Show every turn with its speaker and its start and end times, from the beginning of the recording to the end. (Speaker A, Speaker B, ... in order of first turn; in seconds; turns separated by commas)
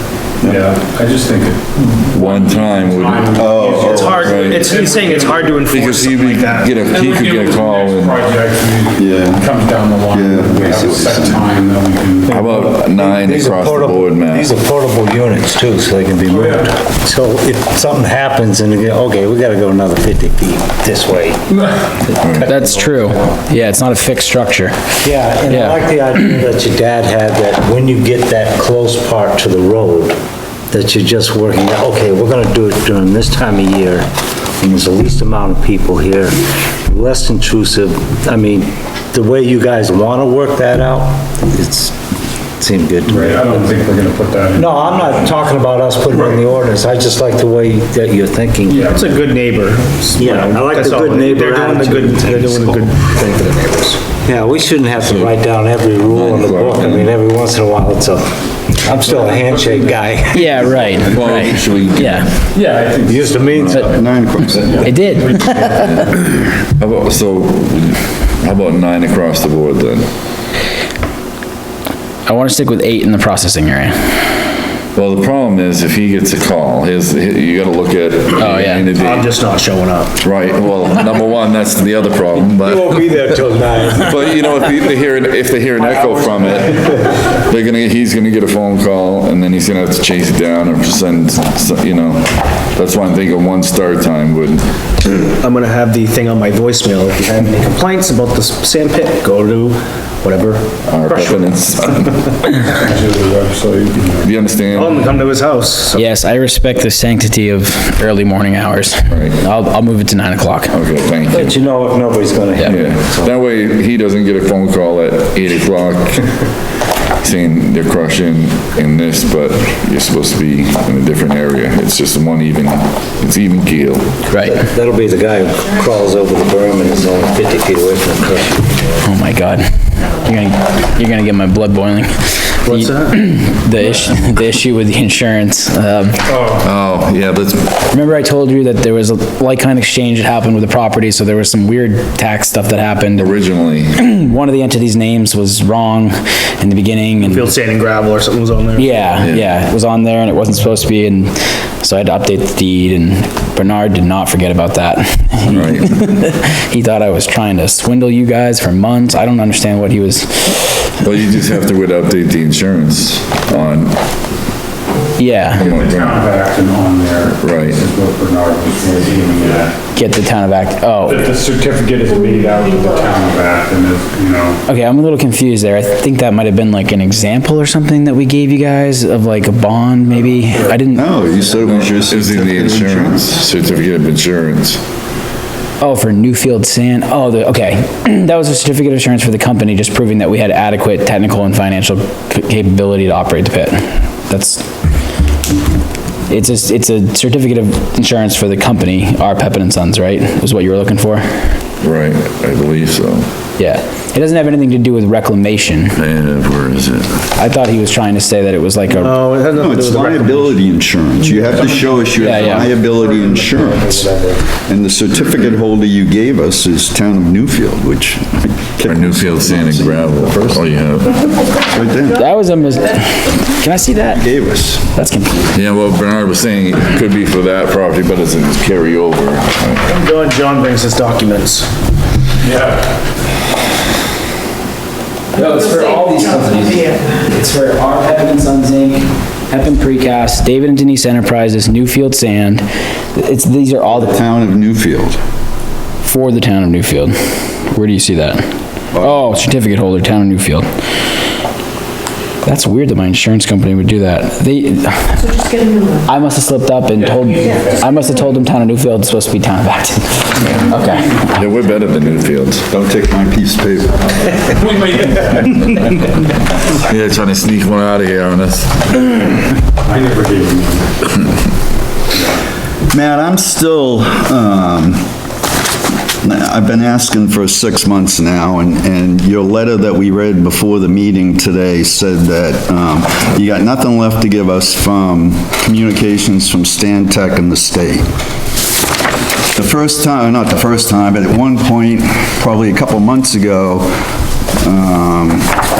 Speaker A: 0.4-5.7, Speaker B: 2.1-3.5, Speaker C: 3.3-4.3, Speaker D: 3.8-6.8, Speaker B: 4.1-4.7, Speaker B: 5.7-8.3, Speaker A: 6.8-12.5, Speaker C: 8.9-9.5, Speaker C: 10.1-11.5, Speaker B: 12.3-14.5, Speaker E: 12.3-21.4, Speaker A: 16.3-16.7, Speaker E: 22.1-23.1, Speaker B: 22.2-22.5, Speaker F: 22.4-24.8, Speaker E: 25.0-30.2, Speaker F: 25.5-25.8, Speaker E: 30.7-41.9, Speaker E: 42.6-43.8, Speaker A: 43.1-45.2, Speaker E: 44.5-48.9, Speaker A: 48.7-49.1, Speaker D: 48.9-54.0, Speaker E: 50.1-53.4, Speaker E: 54.1-61.2, Speaker B: 55.0-55.3, Speaker B: 56.1-57.1, Speaker A: 59.0-60.0, Speaker F: 60.3-62.3, Speaker B: 61.1-62.3, Speaker C: 61.1-61.4, Speaker A: 62.5-66.1, Speaker E: 63.0-63.9, Speaker C: 63.8-64.9, Speaker F: 64.8-65.8, Speaker B: 65.7-70.1, Speaker F: 72.3-74.2, Speaker B: 74.9-79.3, Speaker F: 78.4-78.8, Speaker D: 78.9-80.2, Speaker B: 80.2-83.2, Speaker E: 82.4-84.3, Speaker B: 83.9-94.7, Speaker E: 86.0-86.8, Speaker D: 95.0-101.6, Speaker B: 100.9-102.3, Speaker A: 102.6-104.3, Speaker B: 104.2-105.2, Speaker D: 104.7-106.1, Speaker F: 105.9-110.7, Speaker B: 109.1-109.3, Speaker B: 110.7-111.6, Speaker E: 111.3-113.3, Speaker B: 112.6-116.3, Speaker B: 117.2-124.2, Speaker E: 124.3-129.0, Speaker F: 124.3-124.5, Speaker F: 129.0-136.2, Speaker D: 132.7-133.2, Speaker A: 136.3-136.6, Speaker B: 136.6-137.8, Speaker F: 137.9-143.3, Speaker B: 143.2-143.9, Speaker F: 143.9-147.5, Speaker D: 147.2-149.2, Speaker F: 148.8-160.9, Speaker B: 149.2-149.5, Speaker B: 155.5-156.0, Speaker B: 161.0-164.0, Speaker F: 165.2-165.7, Speaker B: 165.6-166.2, Speaker A: 165.6-169.7, Speaker B: 167.4-167.8, Speaker F: 169.9-171.3, Speaker A: 171.1-174.6, Speaker G: 172.1-173.0, Speaker F: 174.7-181.1, Speaker A: 180.3-180.8, Speaker C: 180.9-183.3, Speaker B: 181.6-184.8, Speaker F: 185.8-194.7, Speaker F: 196.3-201.6, Speaker B: 201.8-203.3, Speaker F: 203.6-206.0, Speaker B: 206.0-207.2, Speaker F: 207.3-209.2, Speaker D: 208.9-210.5, Speaker C: 209.5-220.7, Speaker A: 211.2-214.5, Speaker F: 212.2-212.7, Speaker B: 218.8-221.2, Speaker C: 221.6-222.3, Speaker F: 222.1-224.2, Speaker C: 224.0-224.9, Speaker F: 224.9-225.5, Speaker B: 225.5-229.8, Speaker D: 229.8-231.7, Speaker A: 232.4-232.9, Speaker F: 235.3-244.2, Speaker G: 235.8-237.0, Speaker C: 243.8-245.2, Speaker F: 246.0-247.1, Speaker F: 247.7-248.4, Speaker C: 248.9-249.2, Speaker F: 248.9-250.7, Speaker F: 252.4-255.5, Speaker G: 255.4-256.0, Speaker F: 256.0-261.3, Speaker B: 261.3-262.6, Speaker C: 262.7-264.4, Speaker A: 264.5-265.8, Speaker B: 266.7-269.2, Speaker A: 269.8-270.9, Speaker C: 272.9-275.1, Speaker C: 276.2-288.1, Speaker C: 289.5-294.0, Speaker C: 294.6-295.6